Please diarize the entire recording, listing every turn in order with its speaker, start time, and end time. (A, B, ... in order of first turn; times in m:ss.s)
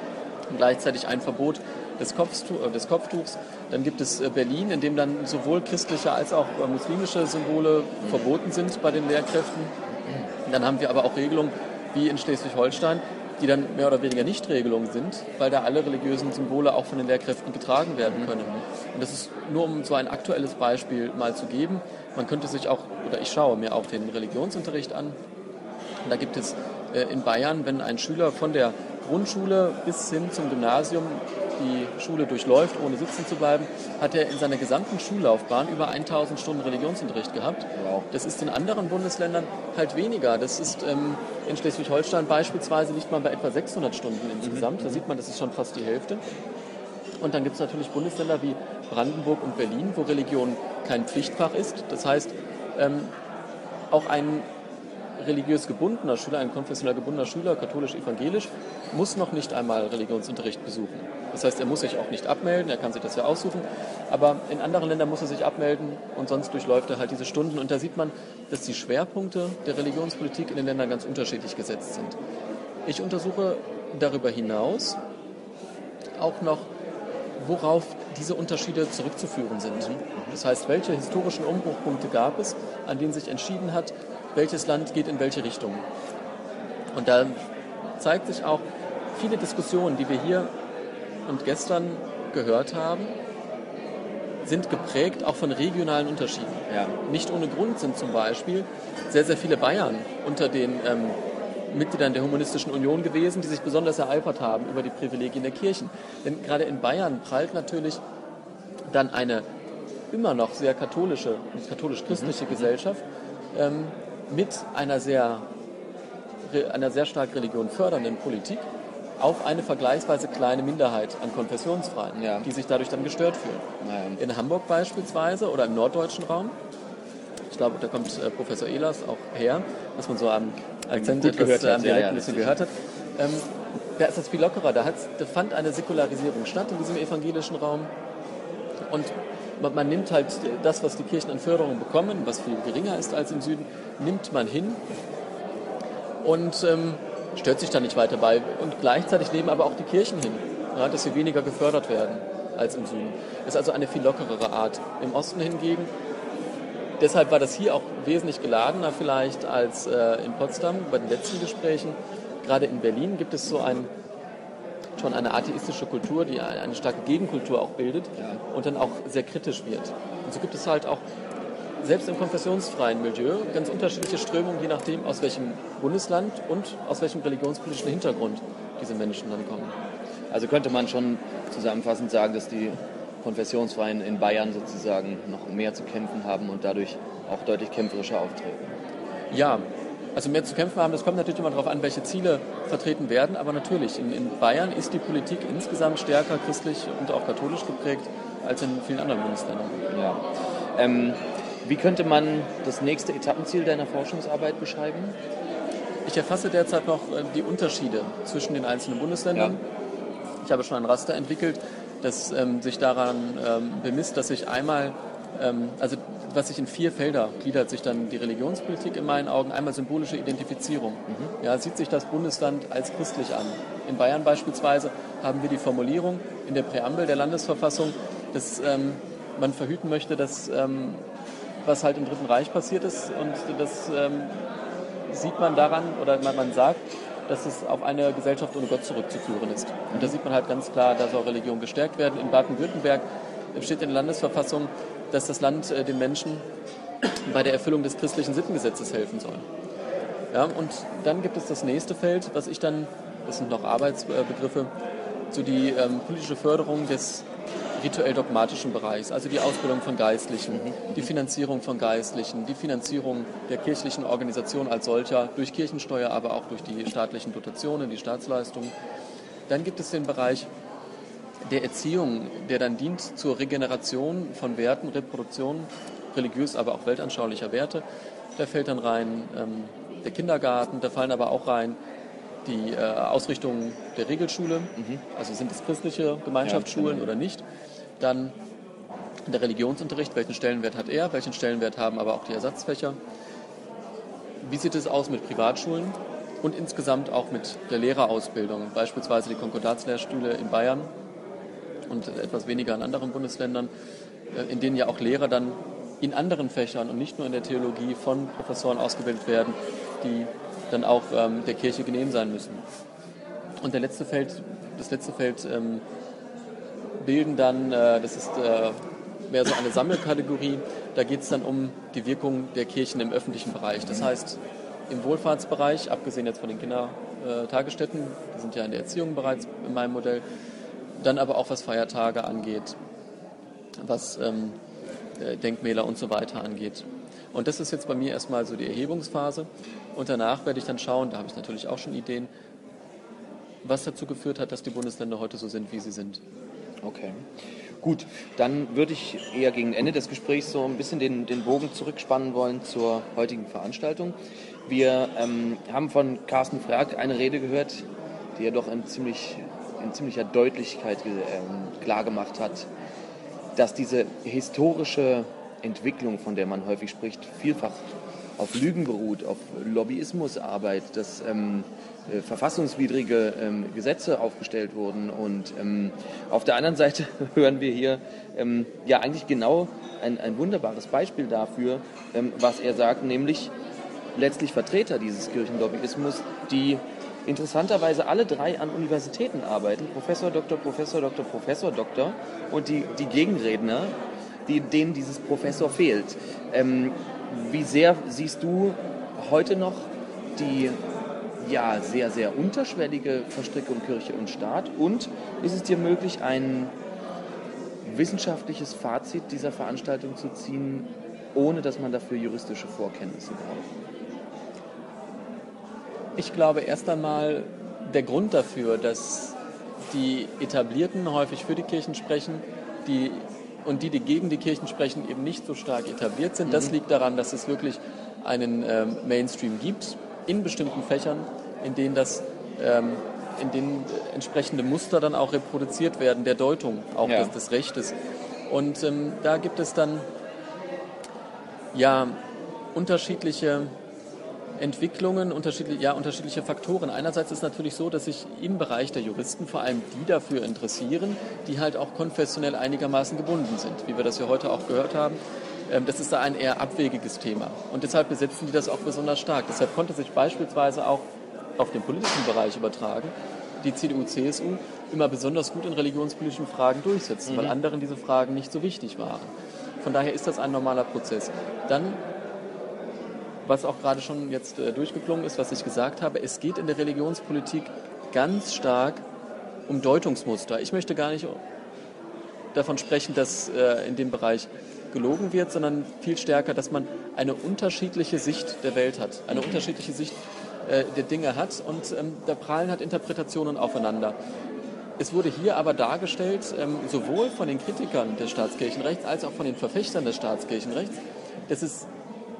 0:00.5-0:09.7 A
0:10.4-0:25.2 A
0:26.0-0:46.2 A
0:37.8-0:38.1 B
0:44.4-0:45.0 B
0:47.2-0:53.1 A
0:53.9-0:54.5 A
0:55.2-1:12.2 A
1:12.8-1:15.0 A
1:16.2-1:16.7 A
1:17.4-1:25.8 A
1:19.8-1:20.4 B
1:26.9-1:27.4 A
1:28.0-1:30.5 A
1:31.2-1:33.1 A
1:34.4-1:41.2 A
1:36.7-1:37.0 B
1:41.7-1:48.0 A
1:48.9-1:49.4 A
1:50.1-1:53.0 A
1:52.1-1:52.7 B
1:53.5-1:55.4 A
1:56.4-1:58.6 A
1:59.2-2:03.6 A
2:02.2-2:02.5 B
2:03.8-2:04.2 B
2:04.2-2:06.6 A
2:07.5-2:13.4 A
2:10.9-2:12.6 B
2:14.0-2:17.9 A
2:18.9-2:24.8 A
2:26.2-2:35.9 A
2:37.0-2:43.9 A
2:45.0-2:51.0 A
2:51.8-2:59.7 A
3:00.3-3:08.8 B
3:09.3-3:19.8 A
3:19.9-3:20.2 B
3:20.8-3:25.2 B
3:26.0-3:29.6 A
3:30.4-3:51.0 A
3:51.6-3:54.4 A
3:55.1-4:06.4 A
4:07.0-4:09.4 A
4:10.3-4:14.7 A
4:15.3-4:28.7 A
4:20.6-4:21.0 B
4:29.5-4:30.5 A
4:31.4-4:37.8 A
4:38.4-4:41.8 A
4:42.4-4:47.4 A
4:46.4-4:47.1 B
4:48.0-4:48.3 A
4:49.3-4:53.0 A
4:54.4-5:00.9 A
5:01.9-5:03.7 A
5:04.3-5:12.6 A
5:13.6-5:15.8 A
5:17.0-5:30.2 A
5:31.0-5:32.8 A
5:33.8-5:34.6 A
5:35.2-5:42.3 A
5:43.6-5:46.2 A
5:46.8-5:47.3 B
5:47.8-5:57.8 B
5:58.4-6:02.7 B
6:03.6-6:07.9 B
6:08.4-6:23.5 B
6:24.2-6:34.0 B
6:34.5-6:40.8 B
6:41.4-6:46.7 B
6:47.8-6:53.7 B
6:56.2-6:59.4 A
6:59.9-7:17.9 A
7:06.5-7:06.7 B
7:17.0-7:17.3 B
7:18.5-7:20.1 A
7:21.7-7:22.2 A
7:22.7-7:23.7 A
7:24.6-7:41.1 A
7:41.6-7:52.0 A
7:47.3-7:47.6 B
7:53.4-7:59.0 A
7:59.7-8:01.4 A
8:02.5-8:14.2 A
8:09.3-8:09.6 B
8:15.0-8:21.9 A